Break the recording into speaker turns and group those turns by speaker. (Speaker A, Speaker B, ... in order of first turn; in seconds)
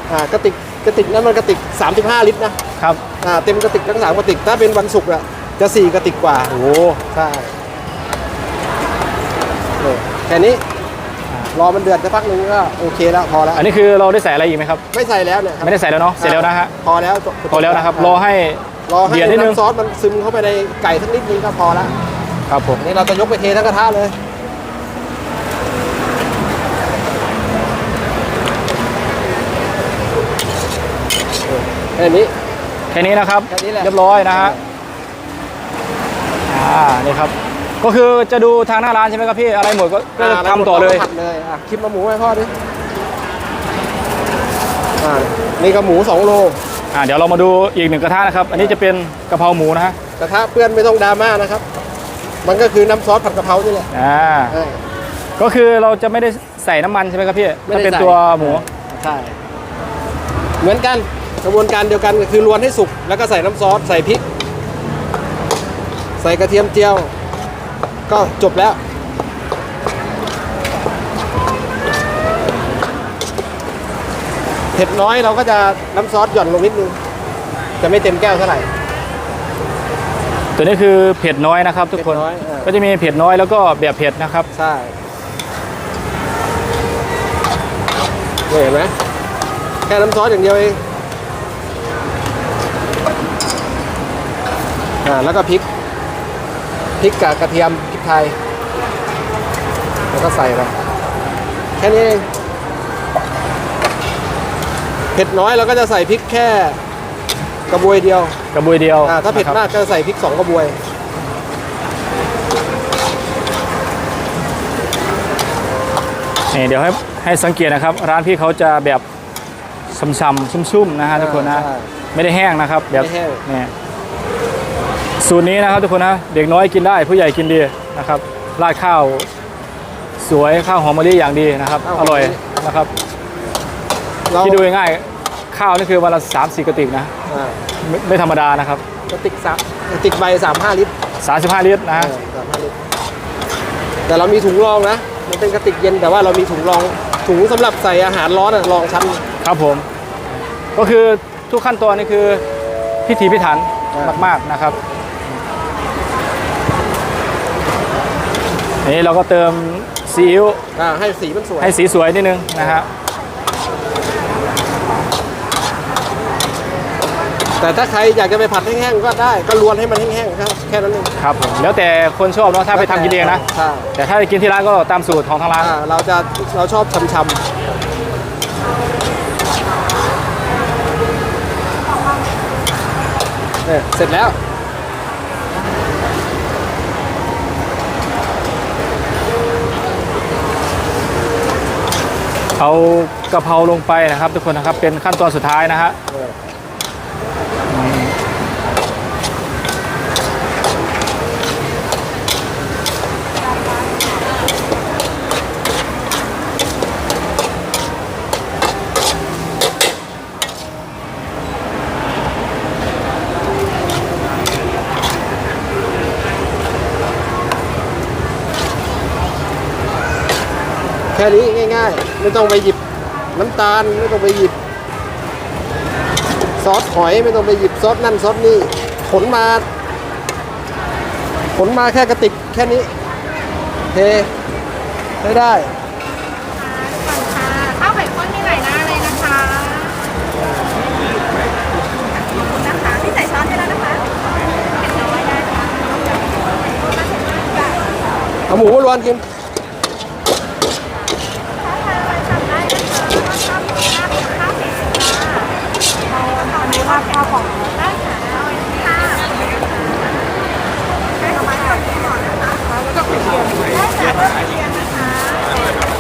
Speaker A: 0.1-2.6, 3.2-6.6, 7.1-7.5, 9.8-10.6, 11.5-13.6, 14.9-18.2, 18.9-22.0, 22.8-24.1, 31.5-32.3, 33.5-34.6, 40.2-42.5, 45.0-46.6, 50.2-51.6, 52.5-53.9, 54.5-54.8, 57.7-59.4, 60.6-64.2, 66.2-67.1, 68.1-68.8, 74.8-77.0, 77.8-78.7, 81.9-82.7, 84.5-84.9, 88.5-88.9, 89.9-90.8, 95.0-95.7, 97.0-98.3, 100.1-100.7, 101.8-102.3, 105.2-106.8, 107.7-108.4, 109.0-110.8, 121.1-121.9, 122.9-123.4, 131.8-132.4, 134.3-134.6, 137.3-137.6, 139.1-140.9, 141.9-142.7, 144.1-149.2, 153.9-154.2, 160.8-161.7, 167.6-171.1, 172.7-173.9, 175.6-177.4, 183.7-184.3, 221.1-222.8, 223.3-224.6, 226.6-229.6, 231.6-232.9, 233.9-234.3, 235.2-235.7, 248.5-249.2
Speaker B: 6.5-7.0, 13.5-14.8, 15.6-16.7, 17.5-19.6, 22.5-22.8, 32.9-34.6, 36.5-41.1, 46.9-50.0, 53.9-54.6, 55.4-58.6, 80.6-84.5, 108.5-109.6, 116.5-119.0, 119.9-123.7, 125.2-129.3, 130.2-132.9, 134.4-137.1, 137.8-138.8, 141.2-142.1, 149.4-149.9, 150.8-152.4, 153.1-154.8, 158.8-160.6, 161.6-162.9, 171.2-173.4, 174.0-175.7, 192.6-195.9, 197.7-198.1
Speaker C: 236.6-240.0, 242.1-244.1, 244.8-247.8, 251.6-255.5, 256.1-259.6, 261.2-265.7